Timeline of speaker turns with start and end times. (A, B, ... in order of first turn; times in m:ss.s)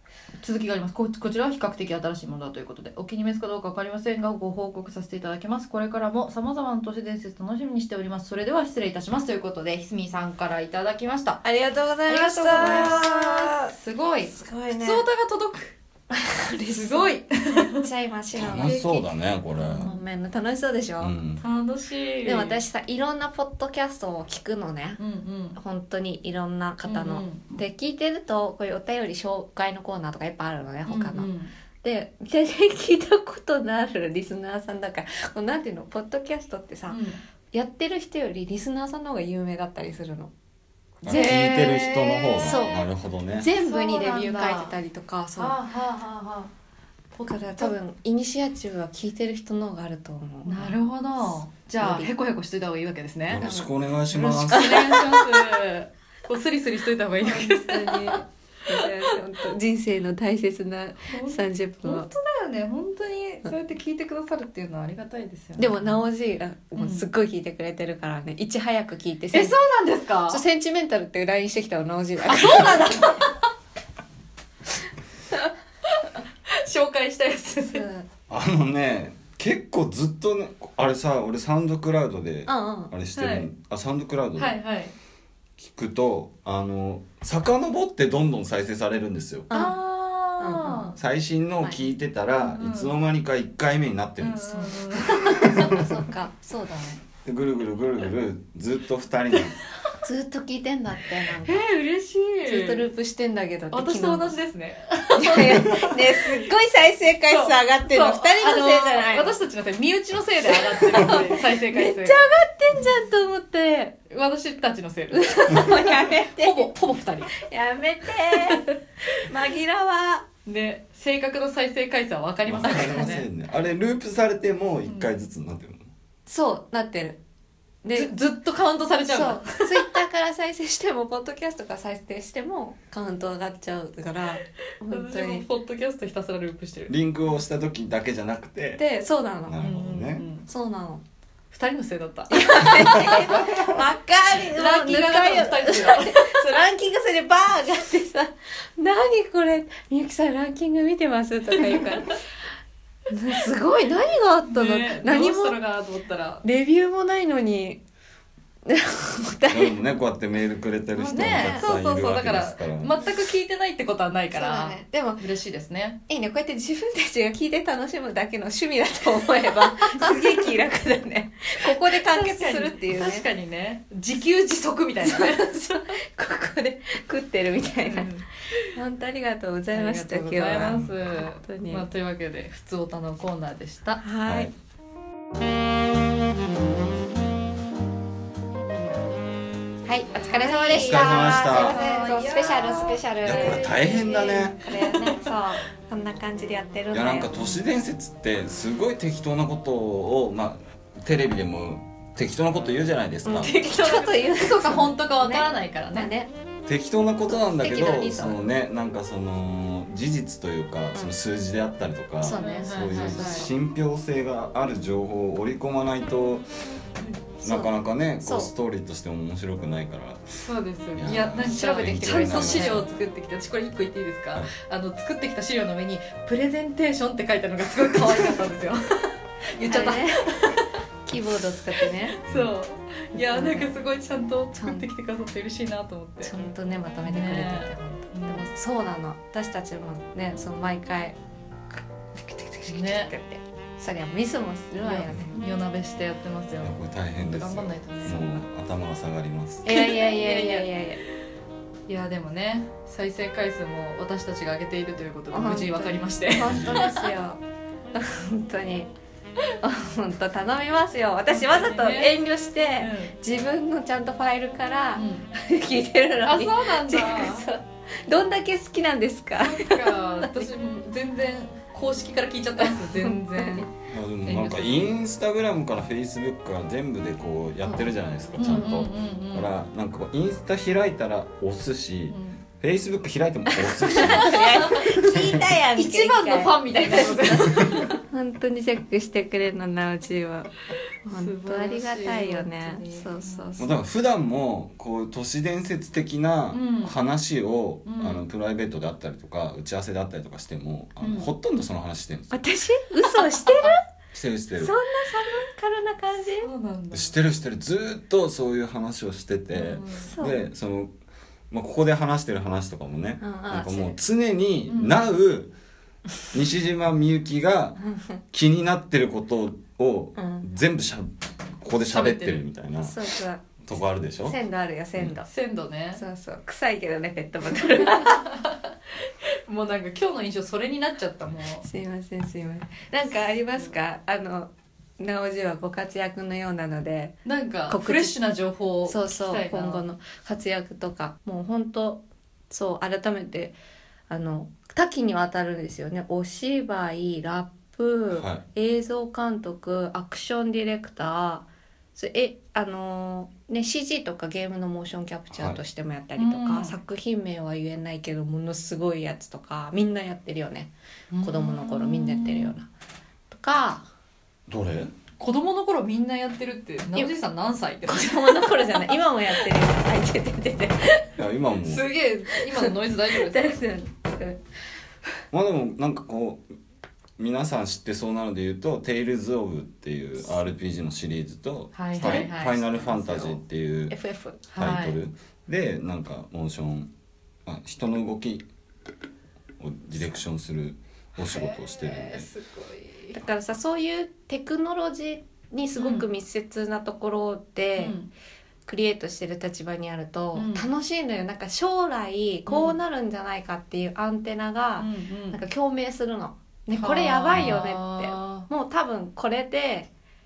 0:00.4-0:11.4 A
0:11.4-0:13.7 B
0:12.1-0:15.7 A
0:14.3-0:15.0 B
0:16.1-0:19.0 B
0:16.7-0:17.9 A
0:18.3-0:19.9 C
0:18.6-0:19.0 A
0:19.6-0:21.1 B
0:19.6-0:20.0 A
0:21.0-0:21.4 C
0:21.4-0:22.6 A
0:22.2-0:25.0 B
0:25.0-0:25.6 A
0:25.6-0:31.3 B
0:26.8-0:27.4 A
0:30.9-0:31.5 A
0:31.8-0:40.3 B
0:36.9-0:37.2 A
0:41.0-0:43.5 C
0:41.0-0:42.8 A
0:41.1-0:41.8 B
0:42.4-0:42.8 B
0:43.4-0:45.6 B
0:43.4-0:44.8 A
0:45.4-0:46.5 A
0:47.1-0:47.7 A
0:47.3-0:52.1 B
0:50.4-0:53.4 A
0:53.3-0:55.0 C
0:53.4-0:55.5 B
0:54.2-0:59.2 A
0:57.2-1:02.1 B
1:01.1-1:06.0 A
1:05.6-1:09.5 B
1:06.8-1:07.1 A
1:09.3-1:10.4 A
1:10.3-1:13.2 B
1:12.3-1:13.3 A
1:16.0-1:17.8 A
1:17.7-1:18.0 B
1:18.3-1:24.6 C
1:22.5-1:22.9 B
1:23.2-1:23.5 A
1:24.4-1:24.9 A
1:25.6-1:29.5 C
1:29.5-1:29.8 B
1:29.5-1:31.0 A
1:30.4-1:30.9 B
1:31.0-1:35.7 C
1:32.5-1:33.0 A
1:34.2-1:35.8 A
1:35.1-1:37.0 B
1:37.2-1:39.6 C
1:40.0-1:41.7 B
1:41.4-1:42.9 A
1:42.4-1:44.3 B
1:43.7-1:46.5 A
1:45.2-1:49.3 B
1:47.3-1:52.2 A
1:50.5-1:53.9 B
1:53.9-1:57.4 A
1:55.1-1:56.7 B
1:57.3-2:00.2 B
1:58.3-1:58.7 A
2:00.4-2:03.2 A
2:02.4-2:05.9 C
2:04.8-2:05.1 A
2:06.3-2:07.2 B
2:07.8-2:08.1 B
2:07.9-2:09.9 A
2:09.1-2:15.4 B
2:14.9-2:16.9 A
2:16.9-2:18.8 C
2:18.8-2:19.6 B
2:19.5-2:20.2 C
2:19.6-2:20.5 A
2:20.5-2:21.0 B
2:21.5-2:23.7 A
2:22.3-2:32.2 B
2:24.4-2:26.5 A
2:33.1-2:35.6 B
2:34.5-2:36.4 A
2:36.4-2:37.8 B
2:38.6-2:39.8 B
2:39.5-2:43.0 C
2:41.0-2:46.0 A
2:41.0-2:41.7 B
2:44.3-2:45.2 B
2:46.1-2:53.2 B
2:49.9-2:50.3 A
2:51.6-2:55.5 A
2:55.0-2:58.1 B
2:57.8-2:58.3 A
2:58.7-3:01.8 B
2:59.7-3:04.0 A
3:00.6-3:01.0 C
3:04.0-3:04.5 B
3:04.2-3:04.5 C
3:09.8-3:17.5 B
3:10.2-3:15.4 A
3:10.8-3:11.8 C
3:13.2-3:14.6 C
3:16.9-3:23.5 C
3:23.2-3:26.3 B
3:23.5-3:26.1 A
3:26.7-3:36.4 C
3:27.3-3:28.4 B
3:32.2-3:33.5 B
3:32.3-3:33.5 A
3:37.4-3:38.5 B
3:37.4-3:40.4 C
3:40.4-3:50.7 A
3:41.0-3:42.9 C
3:41.4-3:42.8 B
3:49.7-3:52.2 B
3:52.2-3:56.3 A
3:52.3-3:52.5 C
3:53.1-3:53.7 B
3:54.5-3:54.9 B
3:56.2-4:01.2 B
3:57.1-3:58.5 A
4:02.1-4:05.4 B
4:02.7-4:03.1 A
4:04.8-4:08.2 A
4:06.6-4:09.7 C
4:09.6-4:10.7 A
4:09.6-4:11.0 B
4:11.9-4:17.0 A
4:15.3-4:17.4 B
4:16.4-4:16.9 C
4:17.9-4:18.9 B
4:19.6-4:30.5 B
4:21.3-4:23.1 A
4:25.0-4:25.3 A
4:26.2-4:27.4 A
4:29.4-4:33.7 A
4:32.6-4:33.7 B
4:33.9-4:45.5 C
4:34.2-4:34.9 A
4:38.4-4:39.5 A
4:42.1-4:42.4 A
4:43.5-4:50.5 B
4:44.2-4:45.0 A
4:45.8-4:48.0 A
4:51.0-4:53.7 B
4:51.1-4:53.7 A
4:53.6-5:02.4 C
4:56.5-4:56.9 A
4:57.8-4:58.2 A
5:01.0-5:01.3 A
5:02.3-5:03.8 B
5:03.0-5:03.8 A
5:04.1-5:04.7 C
5:04.6-5:06.5 B
5:06.4-5:07.1 A
5:06.9-5:10.9 C
5:09.5-5:10.1 A
5:10.0-5:10.4 B
5:11.5-5:15.5 C
5:13.2-5:14.0 B
5:14.7-5:15.0 A
5:16.3-5:17.8 C
5:17.8-5:18.2 B
5:18.3-5:23.0 C
5:20.2-5:20.4 B
5:21.9-5:22.4 A
5:22.8-5:23.4 B
5:23.6-5:24.4 C
5:24.2-5:25.3 B
5:25.3-5:26.0 A
5:26.0-5:28.3 B
5:28.0-5:31.7 A
5:31.6-5:37.2 B
5:37.2-5:39.8 A
5:37.7-5:38.2 B
5:38.8-5:43.5 B
5:44.1-6:02.7 B
5:48.1-5:48.4 C
5:55.3-5:55.6 C
5:56.2-5:56.8 A
6:01.1-6:02.5 A
6:03.3-6:03.9 B
6:04.5-6:04.9 C
6:05.2-6:08.9 A
6:07.9-6:11.1 B
6:11.2-6:11.9 C
6:11.6-6:13.5 A
6:12.3-6:14.4 B
6:15.3-6:16.5 C
6:17.2-6:23.9 C
6:21.7-6:22.8 A
6:22.0-6:23.4 B
6:23.9-6:24.4 B
6:24.5-6:25.0 A
6:24.6-6:26.9 C
6:27.4-6:28.4 C
6:29.6-6:32.3 C
6:31.2-6:33.2 A
6:33.1-6:38.0 B
6:35.8-6:36.1 A
6:37.8-6:38.1 A
6:38.7-6:49.9 B
6:40.3-6:40.6 A
6:42.5-6:42.8 A
6:44.8-6:45.4 A
6:46.7-6:48.5 A
6:47.3-6:47.6 C